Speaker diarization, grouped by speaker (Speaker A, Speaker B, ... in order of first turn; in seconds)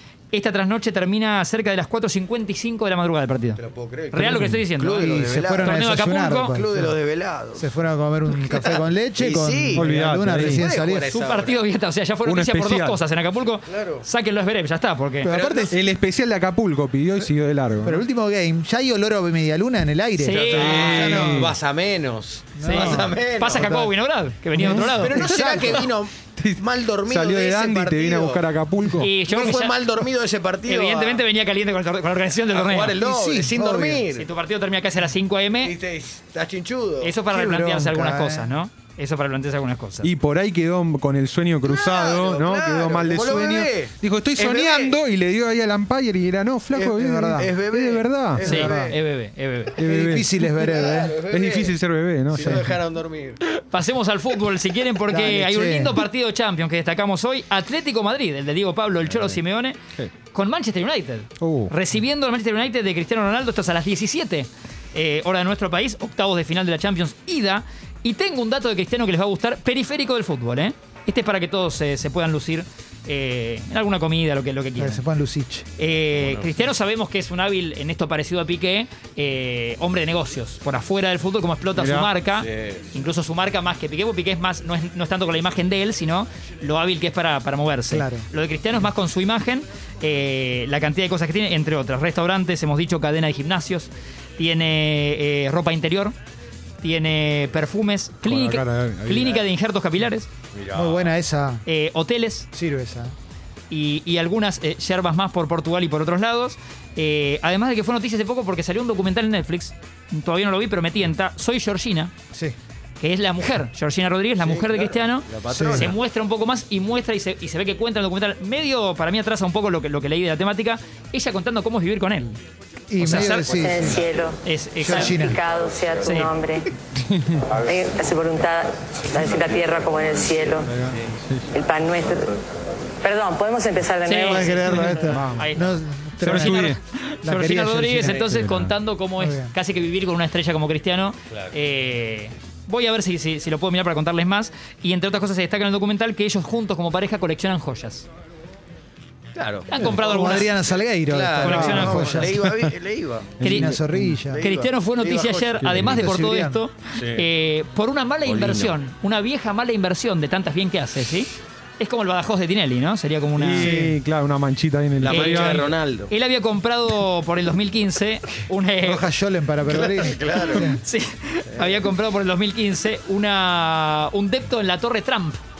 Speaker A: 0.3-6.6, 11.1-15.3, 20.2-21.3, 22.6-25.4, 29.0-29.8, 30.6-33.0, 34.1-35.8, 37.0-40.1, 48.4-49.8, 53.5-59.8, 60.3-75.0, 75.8-96.2, 96.8-100.3, 101.7-102.5, 103.7-112.1, 113.0-122.4, 123.0-123.5, 124.4-125.4, 126.0-126.3, 134.1-148.1, 149.7-150.5, 151.4-152.3, 153.4-153.8, 154.4-163.7, 165.1-169.0, 170.4-175.4
Speaker B: 3.5-7.7, 8.3-9.9, 10.5-11.6, 13.7-14.0, 15.2-15.7, 20.3-23.8, 25.0-28.5, 29.3-31.2, 32.5-34.2, 35.6-37.2, 41.6-45.0, 46.7-48.9, 50.5-51.8, 52.3-53.4, 76.2-76.6, 82.4-82.9, 100.5-101.1, 114.4-116.0, 138.0-138.3, 149.3-150.5, 151.1-153.4, 154.3-155.7, 156.9-157.2, 158.2-158.7, 165.0-166.1, 169.7-170.7, 171.5-171.8
Speaker C: 4.1-4.6, 9.7-10.6, 12.2-13.0, 15.7-18.0, 20.5-21.6, 24.6-29.1, 40.0-48.6, 49.8-50.4, 51.3-52.7, 61.4-61.7, 81.8-82.1, 98.2-99.4, 127.0-127.4, 130.6-131.5, 135.1-135.5, 136.2-136.8, 138.2-138.7, 152.4-152.7, 153.4-154.2, 155.6-156.1, 163.3-165.7
Speaker D: 4.9-6.9, 7.5-11.2, 15.2-15.8, 17.8-21.4, 22.6-23.9, 24.6-25.8, 33.0-34.1, 37.3-38.5, 47.0-47.5, 48.4-49.0, 49.8-51.2, 52.3-52.8, 55.1-56.0, 74.8-75.7, 87.9-88.2, 100.7-101.6, 102.5-103.1, 115.5-115.9, 122.9-124.0, 124.8-125.4, 134.3-136.7, 137.2-138.2, 139.2-139.5, 149.8-152.5, 153.4-154.5, 155.9-156.6, 163.6-163.9, 168.8-170.8
Speaker E: 123.3-124.4, 125.1-126.7, 127.6-130.7, 131.5-132.3, 133.0-134.5